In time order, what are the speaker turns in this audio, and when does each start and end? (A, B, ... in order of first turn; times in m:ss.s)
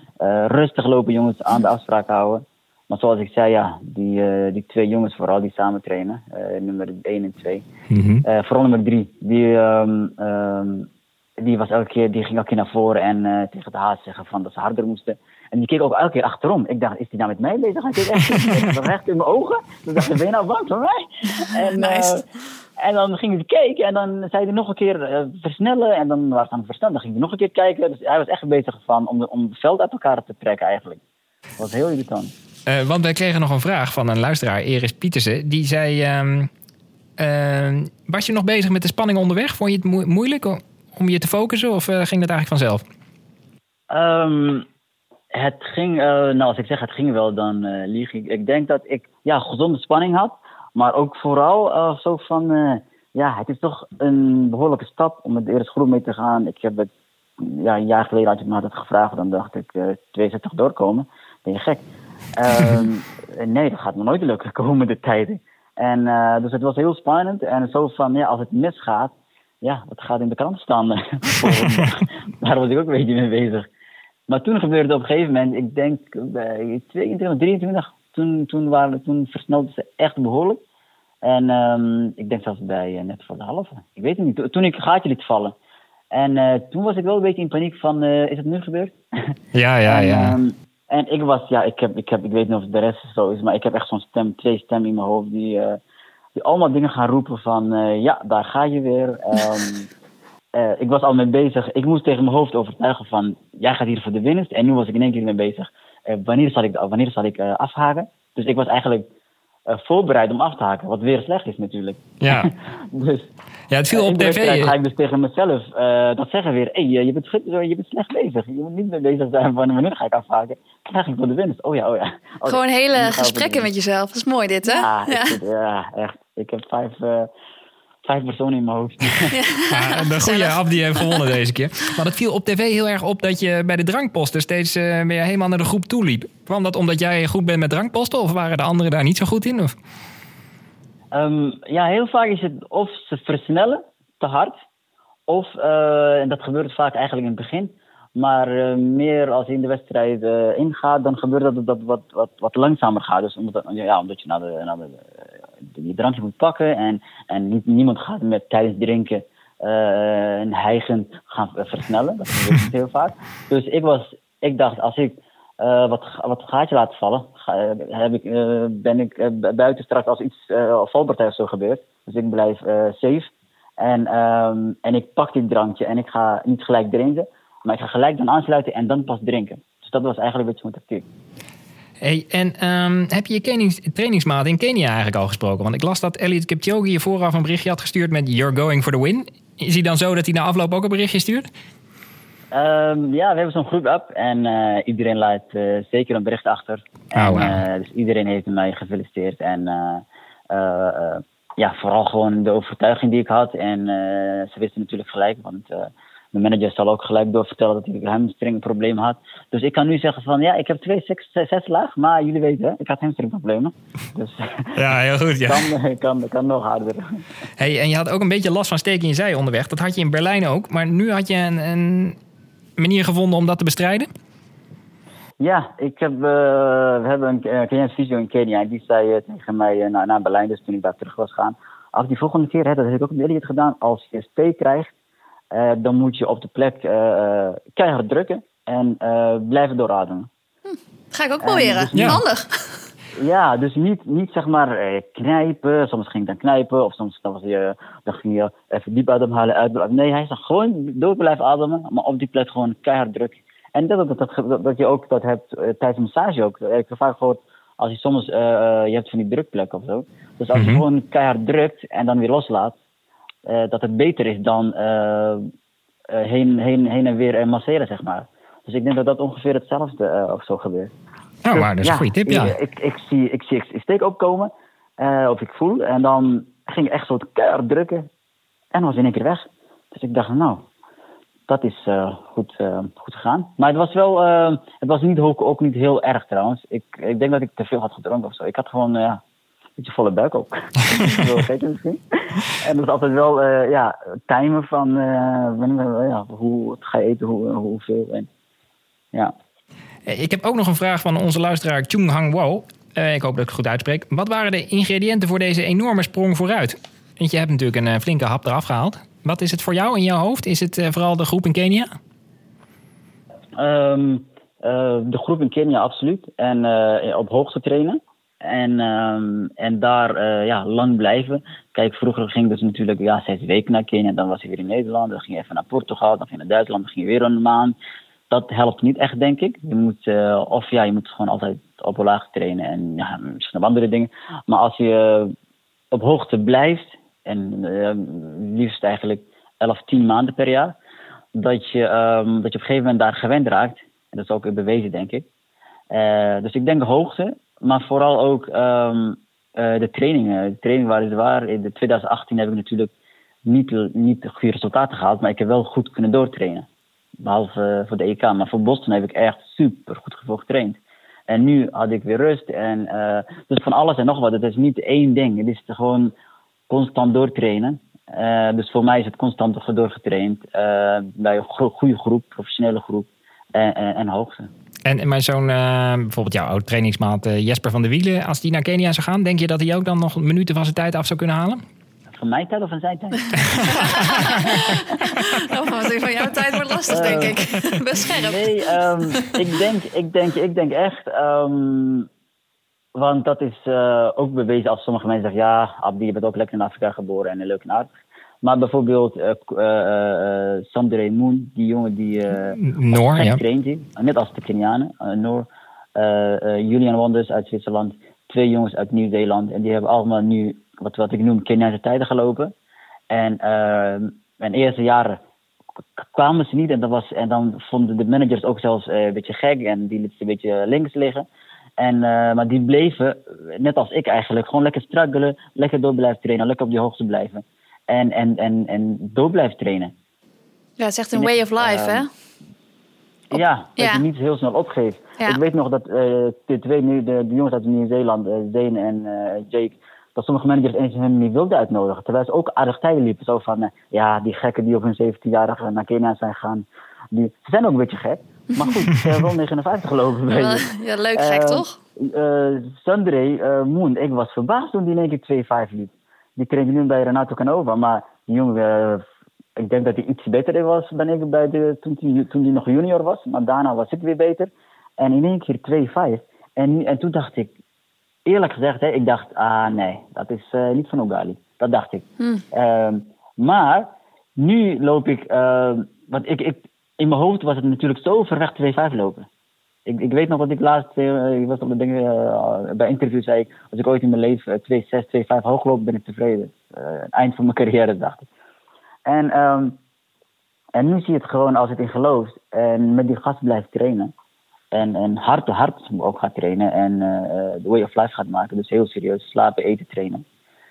0:00.2-0:07.7 A
0:07.9-0:08.2 B
0:08.2-0:10.9 A
0:11.4-0:22.2 A
0:21.4-0:22.2 C
0:22.8-0:31.0 A
0:31.6-0:32.3 A
0:32.7-0:36.5 B
0:37.2-0:42.8 B
0:43.9-0:44.7 A
0:45.3-1:13.7 A
1:14.3-1:20.6 A
1:21.2-1:25.6 A
1:26.1-1:29.0 A
1:29.5-1:30.4 B
1:29.9-1:35.8 A
1:36.4-1:39.9 A
1:40.6-1:49.1 A
1:49.7-1:53.3 A
1:52.2-1:52.5 B
1:53.7-1:54.8 B
1:53.9-2:03.7 A
2:02.5-2:05.4 C
2:04.8-2:07.3 A
2:08.0-2:09.4 A
2:09.3-2:11.1 C
2:09.7-2:19.8 B
2:21.1-2:24.6 A
2:25.3-3:01.1 A
3:02.0-3:11.5 B
3:12.5-3:34.9 A
3:17.2-3:17.6 B
3:34.8-3:35.7 B
3:35.5-3:37.2 A
3:37.6-3:42.2 B
3:42.8-3:44.1 B
3:45.4-3:54.9 A
3:55.5-4:00.3 A
4:00.7-4:02.8 C
4:01.4-4:02.2 A
4:02.0-4:02.2 B
4:03.2-4:22.8 A
4:20.5-4:20.8 B
4:23.5-4:25.5 A
4:26.1-4:30.9 A
4:31.4-4:32.6 B
4:31.5-4:38.1 A
4:38.7-4:40.7 A
4:41.5-4:49.2 A
4:49.8-4:58.3 A
5:00.1-5:11.9 B
5:13.6-5:27.8 A
5:28.3-5:35.3 A
5:35.9-5:40.8 A
5:41.3-5:45.3 A
5:45.9-5:52.9 A
5:53.4-5:56.7 A
5:57.2-6:06.2 A
6:06.7-6:14.5 A
6:14.9-6:21.6 B
6:22.2-6:24.6 A
6:23.5-6:24.6 B
6:23.7-6:28.6 C
6:26.9-6:27.4 A
6:28.0-6:32.1 A
6:29.1-6:29.4 C
6:33.0-6:52.5 A
6:42.5-6:43.4 B
6:53.1-6:55.2 A
6:56.0-7:01.3 A
7:01.8-7:09.9 A
7:10.8-7:12.1 C
7:11.1-7:12.0 A
7:13.3-7:30.6 A
7:13.3-7:14.0 C
7:30.3-7:31.8 C
7:31.2-7:39.1 A
7:39.6-7:47.5 A
7:48.3-7:59.3 A
7:59.9-8:08.3 A
8:09.1-8:09.8 A
8:10.8-8:14.1 A
8:14.7-8:20.2 A